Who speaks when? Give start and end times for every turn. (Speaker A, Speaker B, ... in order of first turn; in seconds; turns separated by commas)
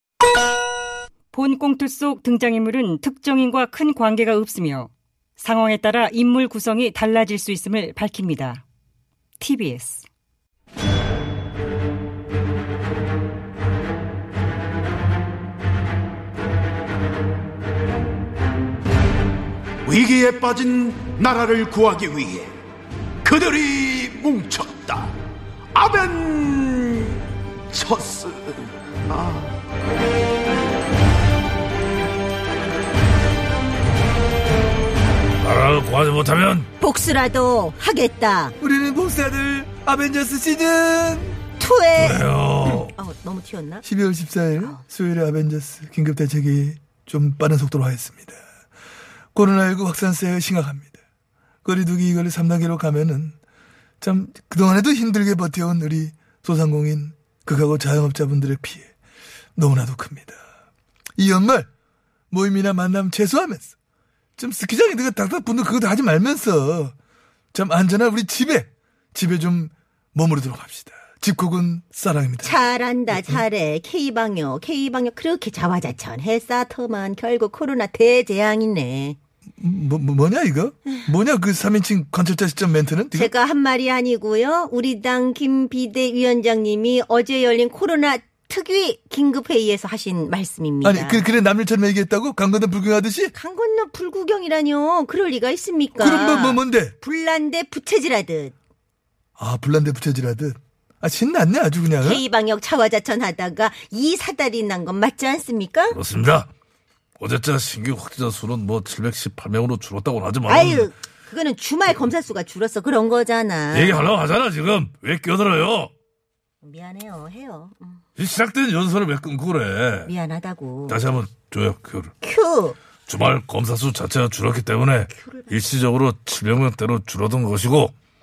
Speaker A: 1.3-8.6, Speaker A: 9.4-10.1, Speaker B: 19.8-22.5, Speaker B: 23.2-25.1, Speaker B: 25.7-29.5, Speaker C: 35.4-36.7, Speaker D: 36.8-38.5, Speaker E: 38.6-41.4, Speaker D: 41.6-42.2, Speaker C: 42.0-42.9, Speaker D: 43.0-43.9, Speaker E: 43.8-48.4, Speaker D: 44.6-44.8, Speaker E: 49.4-51.0, Speaker E: 51.6-53.4, Speaker E: 54.0-58.9, Speaker E: 59.6-60.4, Speaker E: 61.2-61.7, Speaker E: 62.3-63.7, Speaker E: 64.4-66.9, Speaker E: 67.5-73.4, Speaker D: 72.4-79.2, Speaker E: 79.6-83.3, Speaker D: 83.1-91.2, Speaker E: 90.8-93.3, Speaker D: 93.3-98.5, Speaker E: 96.0-97.0, Speaker E: 99.4-102.2, Speaker D: 102.0-106.0, Speaker C: 105.9-106.5, Speaker C: 107.2-110.9, Speaker D: 110.5-114.0, Speaker C: 113.7-115.9, Speaker D: 116.6-118.0, Speaker C: 118.2-120.1, Speaker D: 120.0-121.0, Speaker C: 120.9-122.1, Speaker D: 122.2-122.8, Speaker C: 123.1-127.9, Speaker D: 125.2-125.6